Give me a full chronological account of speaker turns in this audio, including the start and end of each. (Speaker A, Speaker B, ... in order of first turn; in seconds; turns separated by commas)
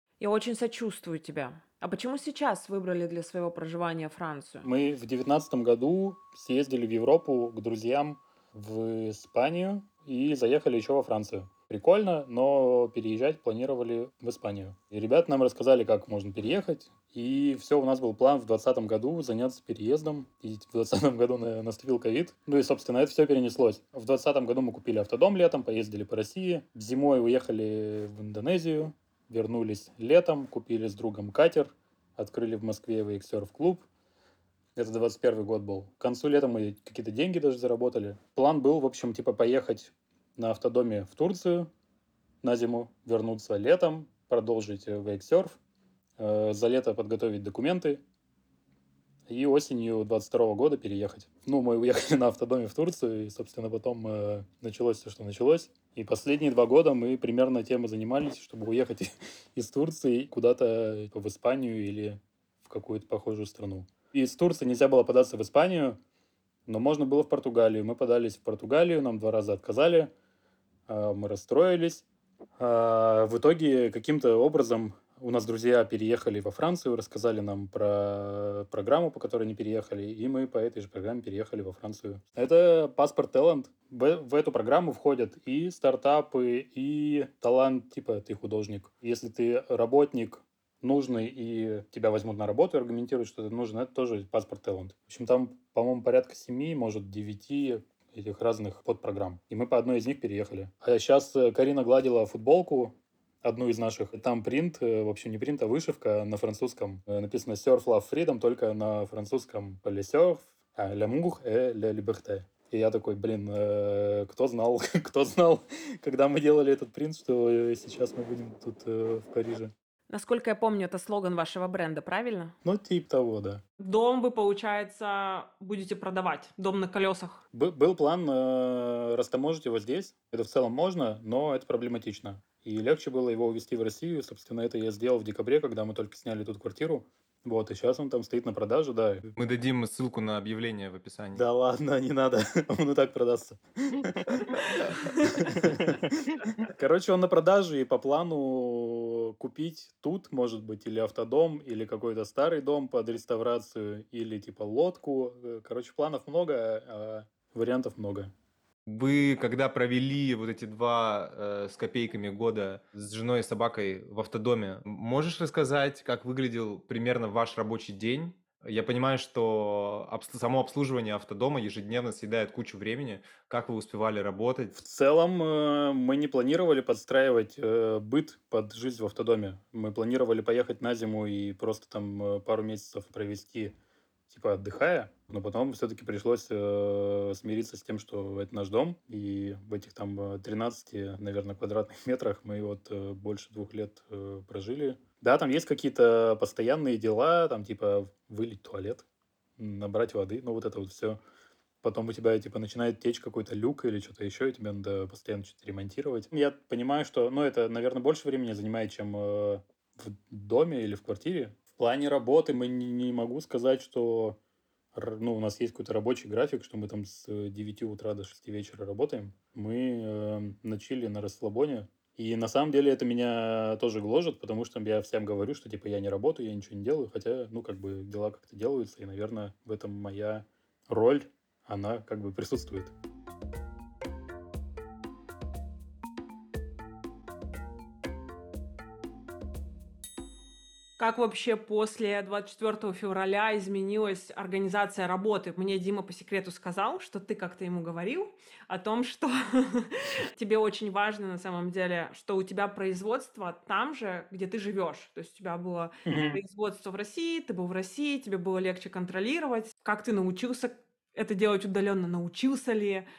Speaker A: 0.2-4.7, Speaker B: 4.6-33.9, Speaker B: 34.8-41.7, Speaker B: 42.4-45.6, Speaker B: 46.2-48.0, Speaker B: 49.3-66.0, Speaker B: 66.7-70.1, Speaker B: 70.9-72.0, Speaker B: 72.6-119.7, Speaker A: 120.1-122.5, Speaker B: 122.6-123.6, Speaker C: 123.8-127.4, Speaker B: 127.5-139.3, Speaker D: 139.4-141.4, Speaker B: 141.3-158.3, Speaker D: 158.9-174.8, Speaker B: 174.8-183.7, Speaker B: 184.3-199.0, Speaker B: 199.6-201.2, Speaker B: 201.8-214.4, Speaker B: 214.9-232.9, Speaker C: 241.0-263.1, Speaker B: 256.1-256.4